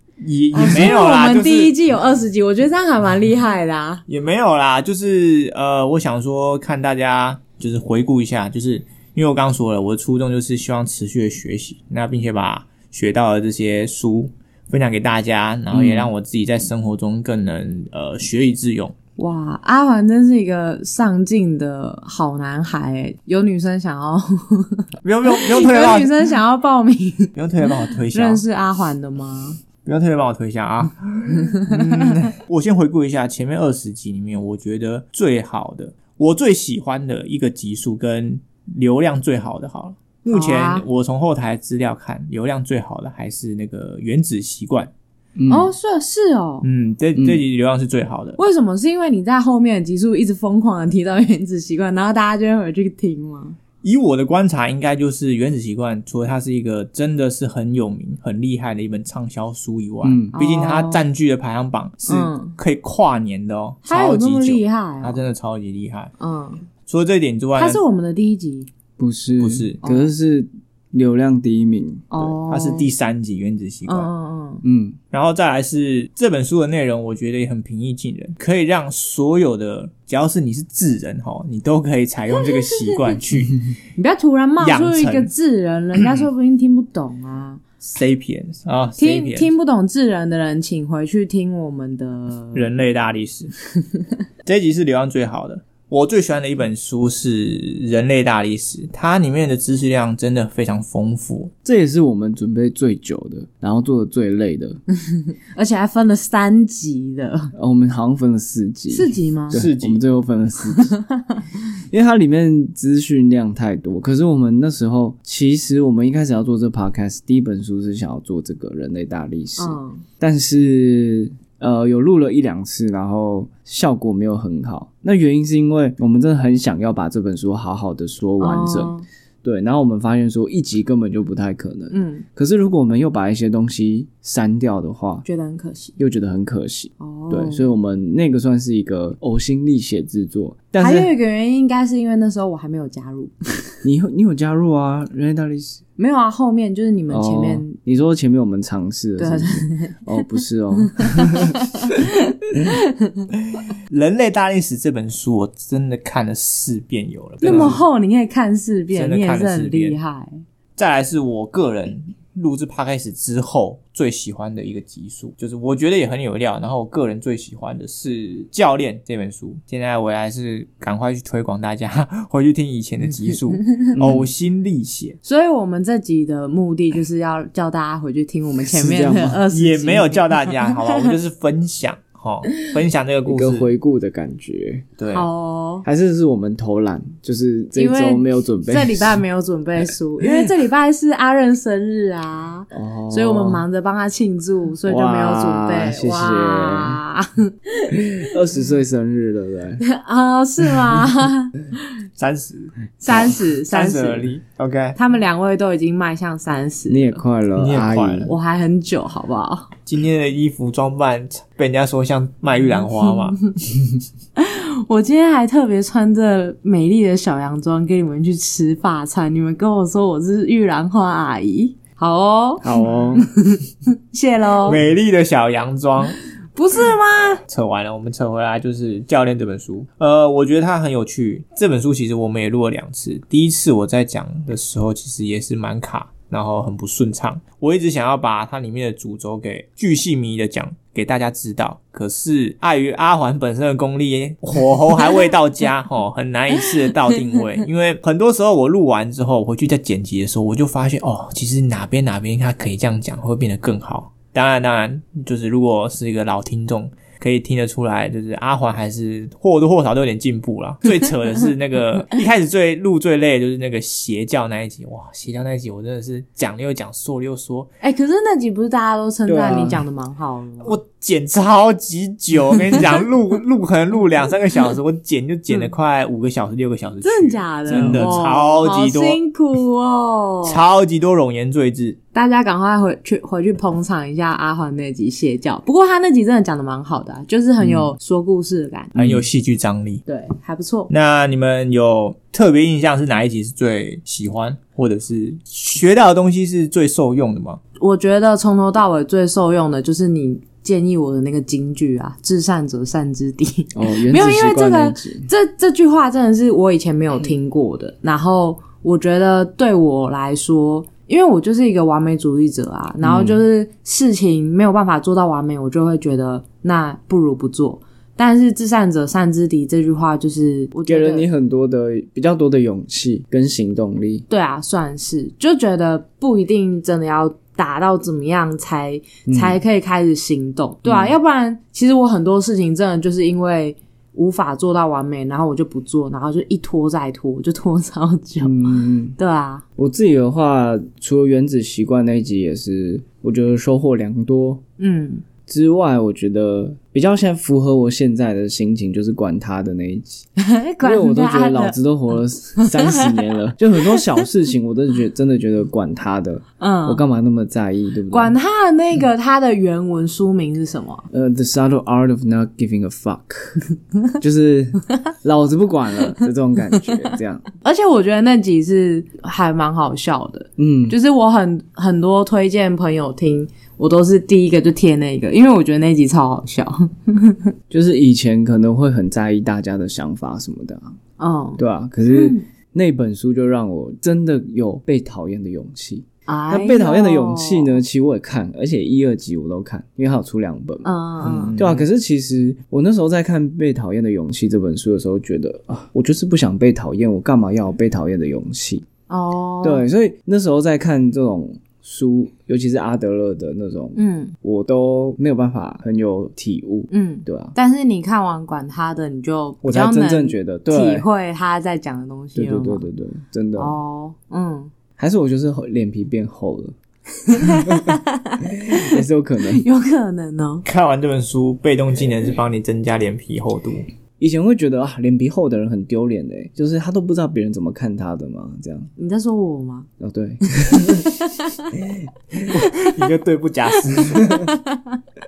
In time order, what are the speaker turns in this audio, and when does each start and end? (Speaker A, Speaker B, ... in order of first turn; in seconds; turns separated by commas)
Speaker A: 0.2-1.7, Speaker B: 0.5-4.0, Speaker A: 4.1-18.9, Speaker C: 15.7-16.1, Speaker B: 19.2-29.6, Speaker A: 25.0-26.3, Speaker A: 27.3-28.4, Speaker A: 29.8-44.9, Speaker B: 31.4-32.2, Speaker B: 40.3-40.8, Speaker C: 45.4-45.7, Speaker B: 45.5-46.6, Speaker A: 46.6-48.4, Speaker B: 48.4-53.6, Speaker A: 53.8-66.1, Speaker C: 60.0-60.3, Speaker B: 60.3-61.0, Speaker B: 62.1-62.5, Speaker B: 63.8-65.2, Speaker B: 66.2-66.6, Speaker A: 66.8-67.8, Speaker B: 67.6-68.7, Speaker C: 69.0-72.1, Speaker A: 69.4-69.8, Speaker B: 69.8-70.1, Speaker B: 72.1-72.9, Speaker A: 72.2-74.1, Speaker B: 73.9-74.6, Speaker C: 74.6-75.0, Speaker A: 75.1-83.6, Speaker B: 82.4-83.0, Speaker B: 84.0-87.6, Speaker A: 84.6-85.3, Speaker A: 87.8-89.5, Speaker B: 89.0-92.7, Speaker A: 92.5-93.5, Speaker A: 94.4-101.5, Speaker C: 101.6-104.8, Speaker B: 104.9-107.5, Speaker C: 107.5-110.9, Speaker B: 108.9-109.6, Speaker A: 109.5-110.0, Speaker B: 110.7-111.4, Speaker C: 111.9-135.2, Speaker B: 119.6-120.0, Speaker B: 128.4-129.0, Speaker B: 131.9-132.2, Speaker B: 135.2-136.0, Speaker C: 136.0-141.1, Speaker B: 137.0-137.7, Speaker B: 140.8-143.5, Speaker C: 143.8-145.8, Speaker B: 146.0-147.8, Speaker C: 147.1-152.0, Speaker B: 149.2-150.0, Speaker B: 150.8-153.3, Speaker A: 153.9-157.8, Speaker B: 157.4-160.4, Speaker C: 157.4-157.8, Speaker A: 158.9-160.0, Speaker A: 160.8-175.2, Speaker C: 173.9-174.3, Speaker B: 175.2-181.1, Speaker C: 178.6-179.4, Speaker A: 179.5-183.7, Speaker C: 183.2-184.9, Speaker A: 185.0-185.3, Speaker B: 185.1-185.8, Speaker C: 185.8-189.2, Speaker B: 187.8-198.1, Speaker C: 190.2-190.5, Speaker C: 192.7-193.6, Speaker C: 194.9-197.0, Speaker C: 197.9-199.8, Speaker B: 199.8-201.8, Speaker A: 202.2-205.0, Speaker B: 203.0-204.3, Speaker B: 204.9-207.2, Speaker C: 206.9-208.3, Speaker A: 207.6-208.3, Speaker B: 208.2-209.7, Speaker A: 209.8-213.4, Speaker B: 214.4-224.8, Speaker C: 222.6-223.2, Speaker A: 224.6-226.2, Speaker B: 226.5-227.4, Speaker A: 227.5-267.7, Speaker B: 267.8-270.8, Speaker C: 269.2-269.9, Speaker A: 270.6-279.2, Speaker B: 277.0-280.6, Speaker C: 277.7-278.1, Speaker A: 280.4-282.0, Speaker B: 282.1-288.9, Speaker C: 287.6-287.9, Speaker A: 288.9-290.0, Speaker C: 288.9-289.2, Speaker B: 290.1-290.9, Speaker A: 290.9-297.6, Speaker B: 297.8-321.3, Speaker C: 303.7-305.3, Speaker C: 313.0-313.4, Speaker C: 320.9-324.2, Speaker B: 324.3-339.6, Speaker C: 329.3-329.6, Speaker C: 330.8-331.2, Speaker C: 338.4-339.1, Speaker C: 339.8-344.6, Speaker B: 344.8-345.2, Speaker C: 345.5-350.2, Speaker B: 350.4-351.8, Speaker C: 350.8-358.3, Speaker B: 352.6-353.2, Speaker B: 353.9-354.2, Speaker B: 356.6-357.0, Speaker B: 358.1-361.1, Speaker C: 361.1-363.6, Speaker C: 364.2-367.4, Speaker B: 367.6-377.5, Speaker C: 370.6-371.0, Speaker C: 377.7-380.9, Speaker B: 381.2-382.4, Speaker C: 381.6-390.9, Speaker B: 386.3-387.8, Speaker B: 390.8-391.6, Speaker A: 391.2-391.9, Speaker C: 391.5-398.9, Speaker B: 399.1-399.8, Speaker C: 399.6-407.5, Speaker B: 403.9-404.3, Speaker B: 406.9-412.9, Speaker C: 409.6-411.1, Speaker C: 412.3-413.7, Speaker B: 413.6-414.7, Speaker C: 415.0-416.7, Speaker B: 417.2-420.6, Speaker C: 417.4-419.6, Speaker A: 420.6-423.9, Speaker C: 424.2-428.9, Speaker B: 429.0-429.9, Speaker C: 430.0-431.1, Speaker B: 430.7-431.1, Speaker A: 432.5-434.5, Speaker B: 434.7-435.0